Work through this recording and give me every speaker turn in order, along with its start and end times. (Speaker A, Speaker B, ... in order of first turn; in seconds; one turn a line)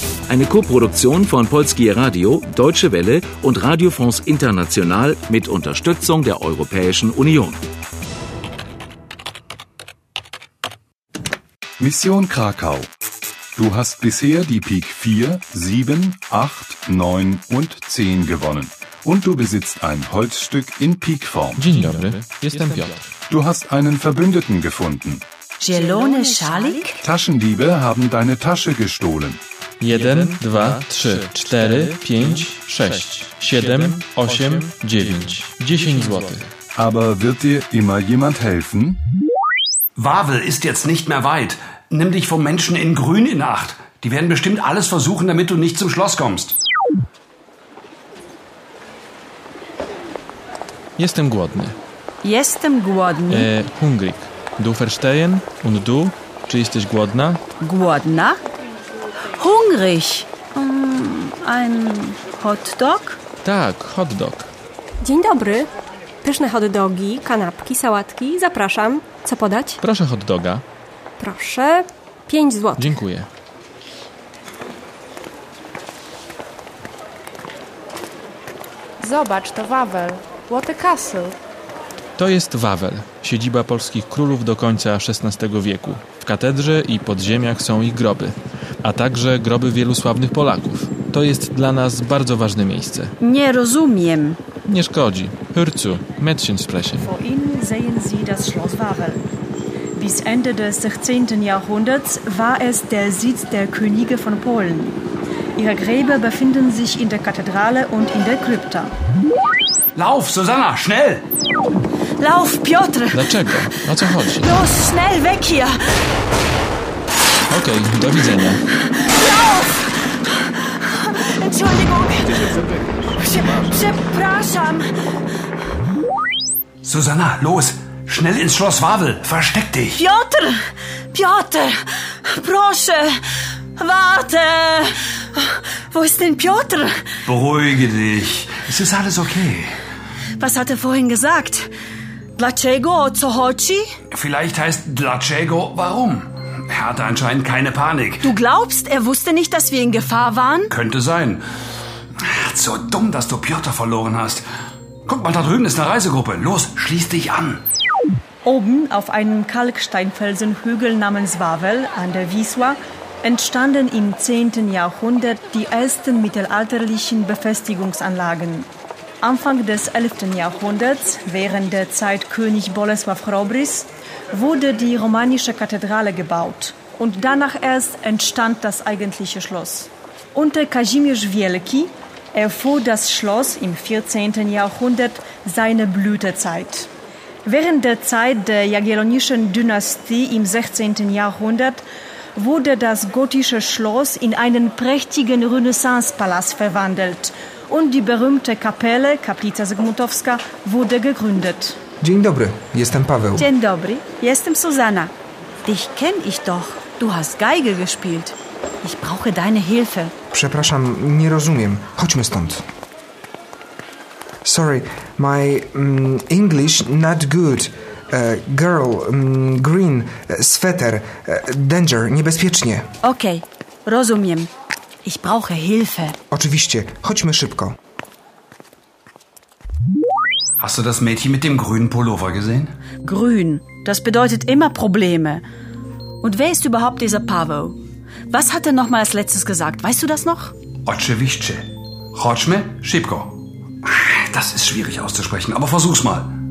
Speaker A: 0.3-7.6
Speaker B: 11.8-12.9
Speaker B: 13.6-21.6
Speaker C: 21.6-23.1
Speaker B: 23.3-25.2
Speaker D: 25.6-27.0
Speaker B: 27.0-29.4
Speaker C: 29.8-36.5
Speaker B: 36.8-39.0
Speaker E: 40.0-46.6
Speaker C: 51.0-51.8
Speaker D: 52.2-53.5
Speaker C: 53.3-57.4
Speaker D: 57.6-58.4
Speaker D: 59.4-63.2
Speaker C: 63.4-64.5
Speaker F: 65.0-65.7
Speaker F: 66.2-69.8
Speaker C: 69.8-70.6
Speaker F: 71.2-72.9
Speaker C: 72.8-73.3
Speaker G: 79.0-81.3
Speaker C: 82.2-93.2
Speaker D: 93.2-94.4
Speaker C: 94.7-97.1
Speaker H: 97.0-99.2
Speaker H: 100.0-105.0
Speaker H: 105.6-108.9
Speaker E: 110.0-111.2
Speaker D: 112.2-113.2
Speaker C: 113.1-114.5
Speaker D: 114.4-115.8
Speaker C: 117.5-118.6
Speaker D: 118.9-122.6
Speaker D: 123.2-124.9
Speaker E: 126.8-130.0
Speaker D: 130.0-133.2
Speaker D: 133.8-137.1
Speaker E: 137.2-139.8
Speaker D: 140.4-141.7
Speaker D: 142.4-143.9
Speaker E: 144.1-148.3
Speaker D: 148.2-150.7
Speaker E: 150.7-151.4
Speaker E: 152.2-154.5
Speaker E: 155.1-157.6
Speaker H: 158.4-168.7
Speaker H: 169.2-186.9
Speaker H: 187.4-191.8
Speaker H: 192.4-201.8
Speaker I: 202.0-203.5
Speaker D: 203.4-205.1
Speaker D: 205.7-210.1
Speaker I: 210.3-212.6
Speaker I: 214.4-222.9
Speaker D: 223.0-224.5
Speaker D: 225.0-226.2
Speaker I: 226.3-227.8
Speaker E: 230.6-232.7
Speaker D: 233.0-235.4
Speaker D: 236.2-237.8
Speaker D: 238.3-240.5
Speaker E: 240.9-246.4